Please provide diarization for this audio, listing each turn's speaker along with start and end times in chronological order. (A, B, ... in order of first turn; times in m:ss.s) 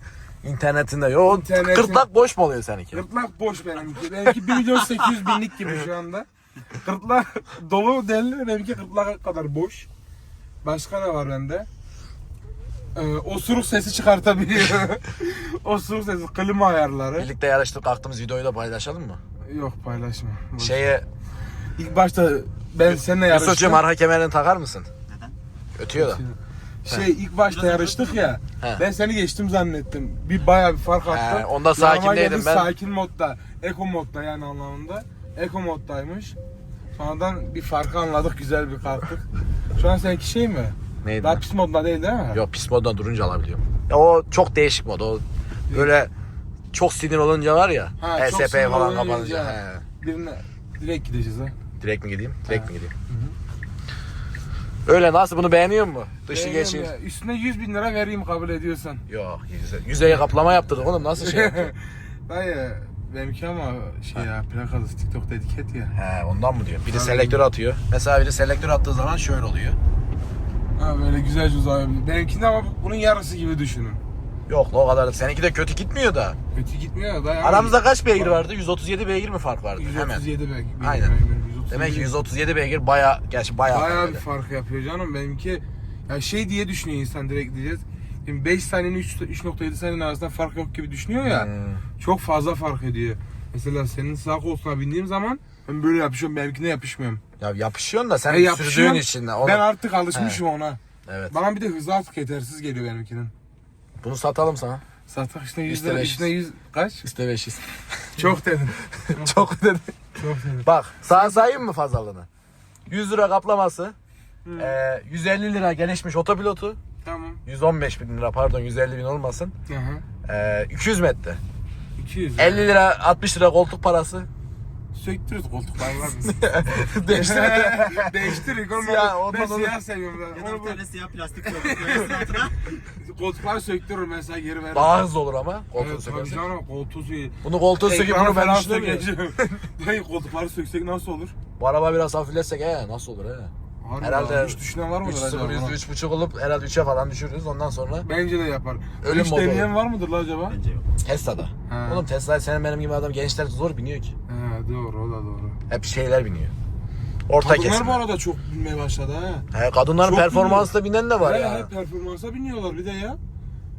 0:00.4-0:03.0 A
0:01.2-0:02.1 B
0:02.9-0:09.9 B
0:10.6-0:11.7 B
0:12.9-0:17.3 B
0:17.2-0:19.2 A
0:19.4-0:20.9 B
0:20.6-0:21.0 A
0:21.8-0:23.8 B
0:22.9-0:24.9 A
0:25.1-0:25.4 C
0:25.8-0:26.2 A
0:25.9-0:36.4 B
0:27.6-0:28.1 C
0:31.1-0:32.7 A
0:36.9-0:39.2 B
0:39.8-0:42.4 B
0:41.0-0:41.4 A
0:42.3-0:46.1 A
0:46.7-0:49.8 A
0:48.0-0:51.5 B
0:51.8-0:52.9 A
0:52.5-0:53.3 B
0:54.8-0:56.9 A
0:56.3-0:59.0 B
0:59.1-1:01.7 A
1:01.2-1:05.9 B
1:05.9-1:09.8 A
1:06.9-1:07.4 B
1:10.8-1:14.0 B
1:14.5-1:16.4 A
1:16.5-1:18.4 B
1:17.4-1:20.2 A
1:19.8-1:22.1 B
1:20.8-1:21.1 A
1:21.7-1:24.2 A
1:23.7-1:37.2 B
1:31.2-1:31.8 A
1:37.4-1:40.4 A
1:38.3-1:43.3 B
1:41.1-1:41.4 A
1:44.0-1:44.8 A
1:45.1-1:47.0 B
1:45.7-1:46.3 A
1:47.0-1:48.3 A
1:48.2-1:49.5 B
1:49.0-1:50.0 A
1:50.1-1:51.6 B
1:50.6-1:52.3 A
1:52.9-1:54.0 A
1:54.4-1:54.8 B
1:54.6-1:56.8 A
1:57.0-1:57.4 B
1:57.4-1:59.5 A
1:59.7-2:00.0 B
2:00.2-2:01.4 A
2:02.0-2:02.7 B
2:02.4-2:04.3 A
2:04.9-2:06.4 B
2:06.2-2:09.8 A
2:07.0-2:10.8 B
2:10.3-2:12.5 C
2:11.4-2:15.0 B
2:14.7-2:16.4 A
2:15.7-2:21.3 B
2:17.4-2:19.1 A
2:21.6-2:28.1 A
2:23.8-2:25.8 B
2:28.0-2:30.6 B
2:29.0-2:29.7 A
2:30.5-2:30.9 C
2:31.0-2:34.1 A
2:31.7-2:32.0 B
2:34.3-2:35.6 B
2:35.7-2:36.5 A
2:37.3-2:38.0 A
2:37.4-2:39.5 B
2:39.5-2:41.7 A
2:40.0-2:43.2 B